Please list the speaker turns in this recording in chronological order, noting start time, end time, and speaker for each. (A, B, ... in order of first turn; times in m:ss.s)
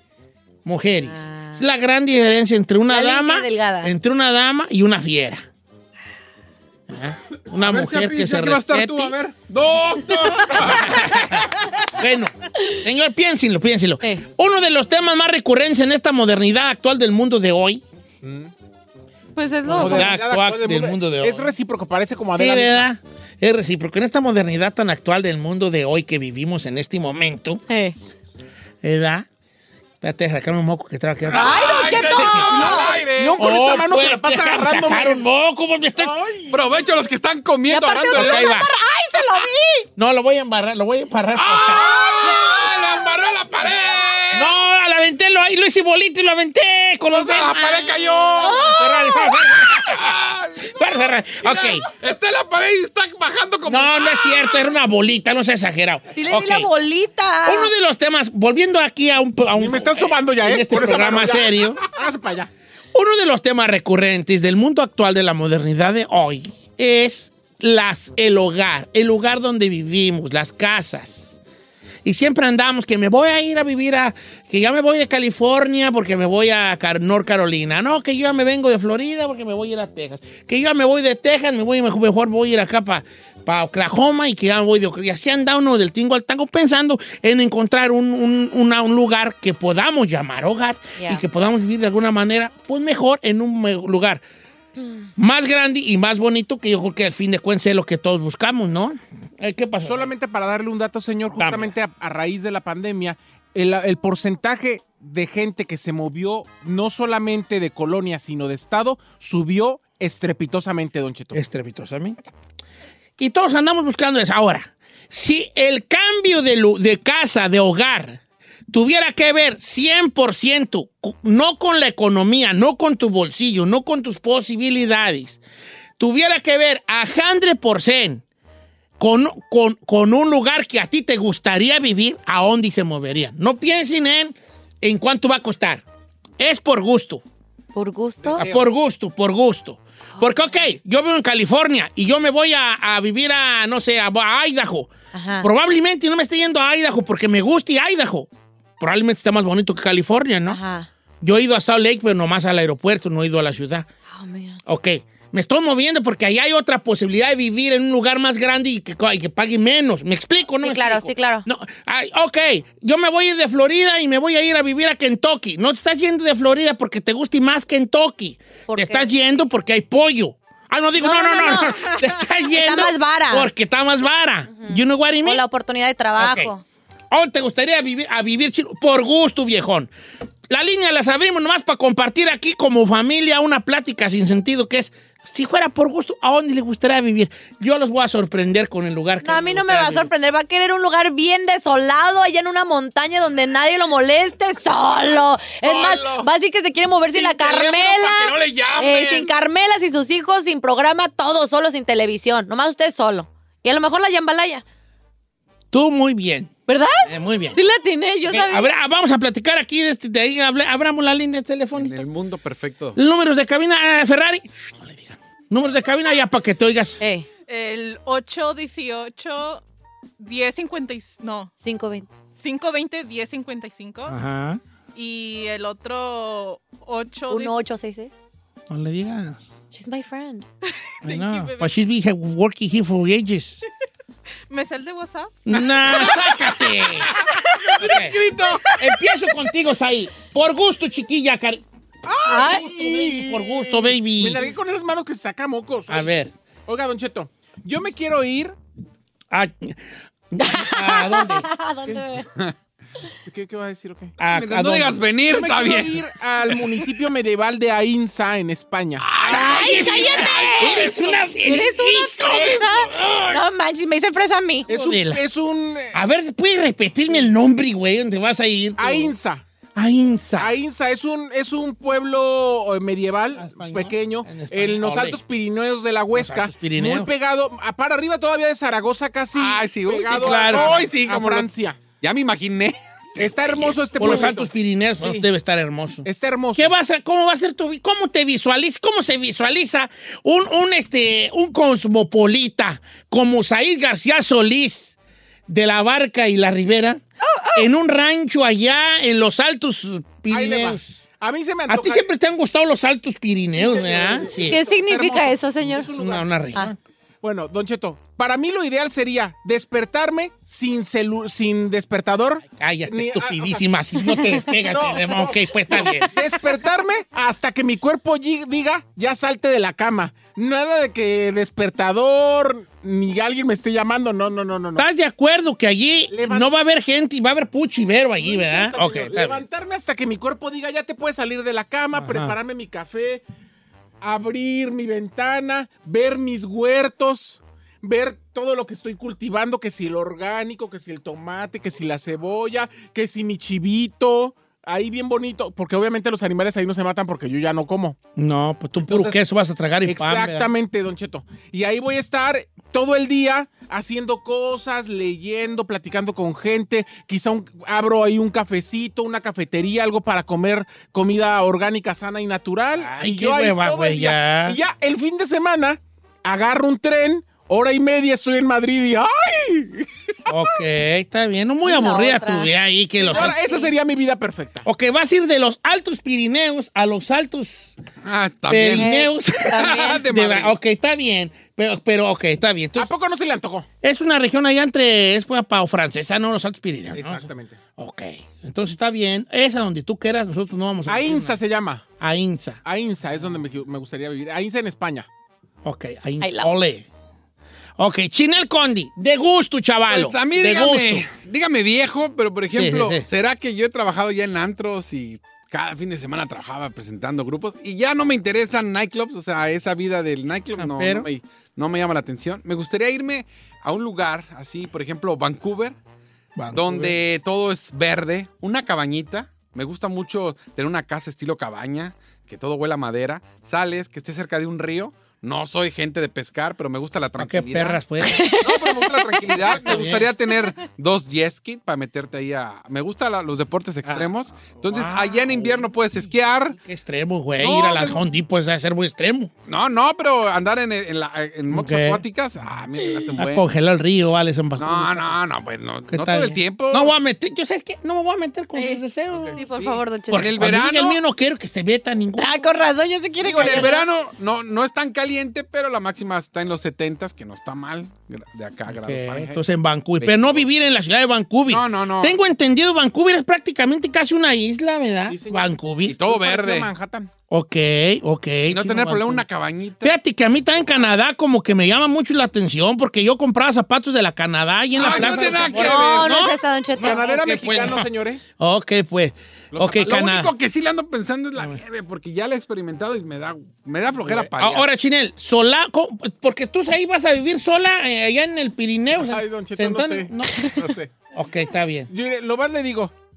0:00.6-0:05.5 A
0:01.0-0:01.6 B
0:02.9-0:03.9 B
0:06.9-0:09.1 A
0:07.6-0:11.4 C
0:10.5-0:17.8 A
0:18.2-0:18.5 D
0:19.4-0:20.1 B
0:19.7-0:21.6 A
0:19.7-0:22.9 D
0:22.3-0:27.6 A
0:27.7-0:28.0 B
0:28.8-0:29.3 A
0:30.0-0:32.8 A
0:31.3-0:33.4 C
0:31.3-0:32.9 B
0:32.7-0:35.2 D
0:33.4-0:36.2 A
0:36.0-0:36.6 D
0:36.5-0:38.5 C
0:37.7-0:39.9 B
0:38.1-0:38.7 A
0:40.0-0:42.4 A
0:41.4-0:44.5 C
0:44.3-0:48.0 A
0:47.1-0:48.7 C
0:48.4-0:49.4 B
0:48.6-0:51.8 A
0:49.6-0:54.5 C
0:53.7-0:56.7 A
0:56.1-0:57.7 B
0:57.5-1:01.8 A
0:59.6-1:02.5 D
1:02.9-1:11.4 A
1:12.0-1:34.2 A
1:31.0-1:31.2 B
1:35.2-1:40.1 A
1:39.8-1:51.4 D
1:41.4-1:41.7 A
1:51.4-1:52.2 A
1:53.2-2:05.4 A
2:06.0-2:08.2 A
2:09.0-2:15.8 A
2:16.4-2:17.2 A
2:17.8-2:18.4 B
2:18.4-2:18.6 D
2:18.4-2:30.6 A
2:20.2-2:20.6 B
2:25.1-2:25.5 B
2:30.5-2:30.9 B
2:31.2-2:33.9 A
2:34.1-2:34.6 B
2:34.7-2:55.4 A
2:40.6-2:41.5 B
2:48.7-2:49.1 B
2:51.0-2:53.5 B
2:54.6-2:56.6 B
2:56.2-2:56.5 A
2:57.1-2:59.9 A
3:00.5-3:10.1 A
3:09.2-3:24.6 B
3:15.6-3:16.3 C
3:17.4-3:19.3 C
3:25.7-3:26.5 A
3:26.7-3:28.7 B
3:27.1-3:27.6 A
3:28.3-3:32.0 A
3:31.8-3:33.0 C
3:33.0-3:37.0 A
3:37.0-3:37.3 B
3:37.5-3:39.6 E
3:40.2-3:41.5 E
3:41.6-3:42.1 B
3:42.4-3:44.2 E
3:44.1-3:44.6 A
3:45.0-3:47.6 E
3:47.3-3:48.1 B
3:48.7-3:49.5 A
3:49.7-3:50.5 B
3:50.7-3:51.8 E
3:51.0-3:53.6 A
3:54.5-3:55.4 E
3:55.5-3:57.2 A
3:55.5-3:58.7 C
3:57.8-3:58.2 A
3:58.8-4:01.6 A
4:02.0-4:06.1 D
4:02.3-4:02.6 B
4:02.4-4:04.4 A
4:05.9-4:06.3 A
4:06.7-4:08.6 D
4:09.3-4:09.8 A
4:10.3-4:11.5 A
4:10.4-4:12.3 B
4:13.3-4:14.2 D
4:14.2-4:15.1 A
4:14.3-4:16.0 C
4:15.3-4:19.2 D
4:19.0-4:20.9 C
4:19.3-4:24.9 B
4:19.3-4:23.4 A
4:24.7-4:26.0 D
4:24.9-4:25.2 A
4:25.9-4:29.1 A
4:28.8-4:29.4 D
4:29.8-4:30.6 A
4:30.4-4:41.8 D
4:33.4-4:35.2 A
4:36.1-4:37.1 A
4:39.3-4:41.5 C
4:40.2-4:40.9 A
4:42.0-4:44.4 C
4:43.2-4:45.3 D
4:44.0-4:55.0 A
4:46.0-4:46.7 D
4:55.5-4:57.0 A
4:57.2-4:57.7 B
4:57.5-5:01.0 A
5:00.3-5:02.1 D
5:01.7-5:04.6 A
5:03.6-5:06.3 D
5:04.5-5:05.9 B
5:05.9-5:06.8 A
5:07.2-5:13.6 D
5:12.5-5:16.2 A
5:14.5-5:24.8 D
5:24.8-5:29.4 A
5:26.1-5:26.5 D
5:28.2-5:33.2 D
5:31.9-5:32.4 A
5:34.0-5:48.0 D
5:48.2-5:50.5 A
5:48.8-5:49.2 D
5:49.9-6:09.9 D
6:02.8-6:04.6 A
6:10.3-6:13.4 A
6:11.6-6:12.5 B
6:13.1-6:13.7 B
6:13.1-6:14.6 D
6:14.6-6:17.7 A
6:18.0-6:18.9 C
6:18.5-6:22.9 A
6:18.7-6:20.0 B
6:19.5-6:20.6 C
6:22.8-6:23.7 D
6:23.8-6:31.4 A
6:26.9-6:27.6 D
6:30.9-6:31.8 D
6:32.0-6:32.6 A
6:32.6-6:35.1 D
6:35.6-6:36.9 A
6:36.2-6:36.5 B
6:37.8-6:41.0 A
6:39.9-6:55.8 C
6:42.5-6:43.1 A
6:50.6-6:51.1 A
6:56.4-6:57.0 A
6:56.5-7:07.8 C
7:07.2-7:08.3 A
7:08.1-7:09.1 B
7:08.3-7:16.6 C
7:09.3-7:10.1 A
7:13.8-7:15.7 A
7:16.6-7:19.3 A
7:17.4-7:18.0 C
7:19.5-7:23.5 C
7:21.5-7:22.0 A
7:23.2-7:25.2 A
7:24.6-7:26.9 C
7:25.9-7:29.4 A
7:28.6-7:30.3 B
7:29.6-7:31.0 C
7:30.1-7:32.5 A
7:32.2-7:33.8 B
7:33.2-7:39.4 C
7:38.7-7:46.0 A
7:40.0-7:40.4 C
7:41.5-7:42.2 C
7:45.1-7:45.5 D
7:45.9-7:46.7 C
7:46.0-7:47.1 D
7:47.3-7:49.2 A
7:48.5-7:50.0 C
7:49.8-8:00.3 A
7:54.8-7:56.2 C
7:54.9-7:55.4 D
7:55.5-7:57.1 B
7:56.8-7:58.2 D
7:59.5-8:04.6 C
8:04.0-8:10.6 A
8:09.0-8:10.9 D
8:11.1-8:11.9 A
8:11.9-8:12.9 D